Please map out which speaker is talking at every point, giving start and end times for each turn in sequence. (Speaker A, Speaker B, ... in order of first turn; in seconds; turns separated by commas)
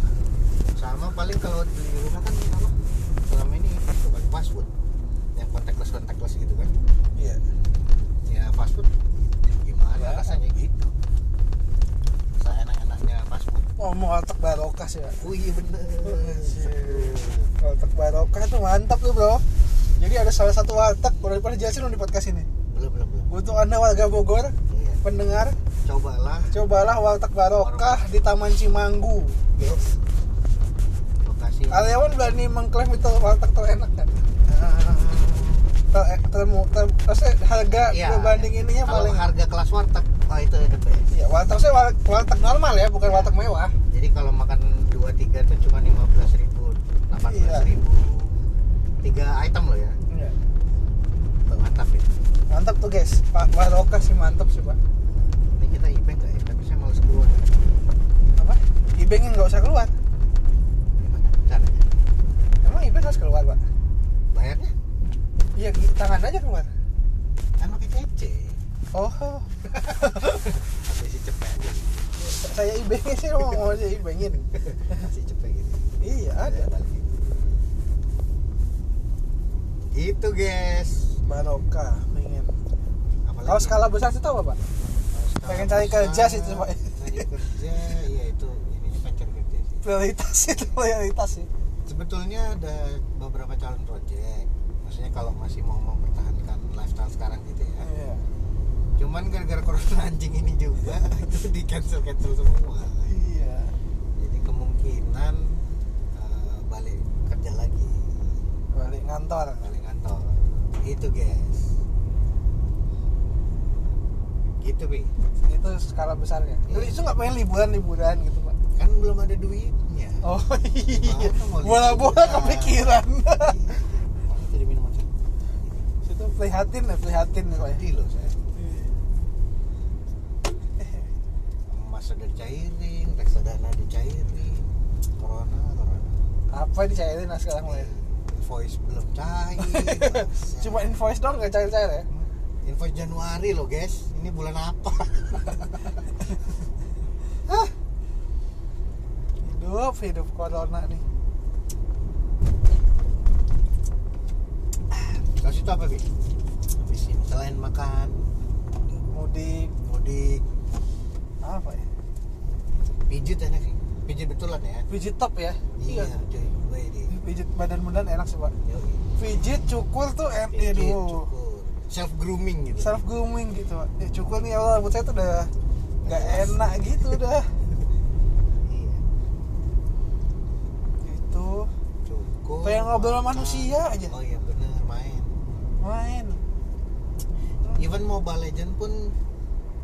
Speaker A: 0.8-4.7, Speaker A: 5.3-6.8, Speaker B: 7.2-7.5, Speaker A: 8.3-8.9, Speaker A: 9.5-10.9, Speaker B: 10.0-10.4, Speaker A: 12.4-13.7, Speaker B: 13.8-15.3, Speaker A: 15.2-17.5, Speaker B: 16.0-19.4, Speaker B: 20.0-22.5, Speaker A: 22.7-23.3, Speaker B: 23.3-25.6, Speaker A: 24.7-25.0, Speaker A: 25.8-26.5, Speaker B: 26.5-29.4, Speaker A: 27.5-28.1, Speaker A: 29.6-30.0, Speaker A: 31.2-32.1, Speaker B: 31.7-34.2, Speaker A: 34.5-35.7, Speaker B: 35.9-39.3, Speaker A: 37.7-41.5, Speaker B: 41.1-43.8, Speaker A: 43.0-43.4, Speaker A: 43.9-48.4, Speaker B: 47.2-47.7, Speaker A: 49.0-50.0, Speaker B: 50.1-50.4, Speaker A: 51.5-52.1, Speaker B: 52.5-54.8, Speaker A: 55.5-57.6, Speaker B: 58.4-59.9, Speaker A: 61.0-61.9, Speaker B: 62.6-63.6, Speaker A: 64.3-64.7, Speaker B: 65.6-66.7, Speaker A: 67.6-68.6, Speaker B: 68.9-70.5, Speaker A: 69.7-72.1, Speaker B: 72.2-75.1, Speaker A: 73.5-73.7, Speaker A: 74.5-75.9, Speaker B: 76.0-76.7, Speaker A: 76.4-77.1, Speaker A: 79.9-81.2, Speaker B: 81.2-82.6, Speaker A: 83.2-83.9, Speaker B: 83.5-84.6, Speaker A: 85.1-89.9, Speaker B: 85.5-87.3, Speaker B: 89.8-91.5, Speaker A: 90.5-90.8, Speaker A: 91.9-97.9, Speaker B: 97.8-98.2, Speaker A: 99.0-103.1, Speaker B: 103.0-103.8, Speaker A: 104.2-105.6, Speaker A: 106.1-108.5, Speaker B: 108.7-109.7, Speaker A: 109.6-111.8, Speaker A: 114.6-115.1, Speaker B: 115.4-118.6, Speaker A: 116.7-117.0, Speaker A: 118.8-120.3, Speaker B: 120.2-123.8, Speaker A: 120.8-125.9, Speaker B: 126.0-127.8, Speaker A: 127.5-128.4, Speaker B: 128.6-129.0, Speaker B: 130.8-131.1, Speaker A: 131.7-136.2, Speaker B: 136.5-137.9, Speaker A: 137.6-141.0, Speaker B: 139.6-142.1, Speaker A: 142.1-145.9, Speaker B: 149.4-151.0, Speaker A: 154.9-156.1, Speaker A: 156.7-158.2, Speaker B: 159.1-159.7, Speaker A: 159.8-160.4, Speaker B: 161.4-161.9, Speaker A: 163.1-164.9, Speaker B: 164.9-166.1, Speaker A: 165.8-167.1, Speaker B: 167.1-168.6, Speaker A: 168.7-169.1, Speaker B: 169.2-171.3, Speaker A: 170.5-173.0, Speaker B: 172.8-175.5, Speaker A: 176.0-177.2, Speaker B: 176.1-177.5, Speaker A: 178.5-179.1, Speaker B: 181.0-181.7, Speaker A: 182.1-185.3, Speaker B: 182.6-184.1, Speaker B: 185.8-186.4, Speaker B: 187.6-187.9, Speaker A: 187.7-189.2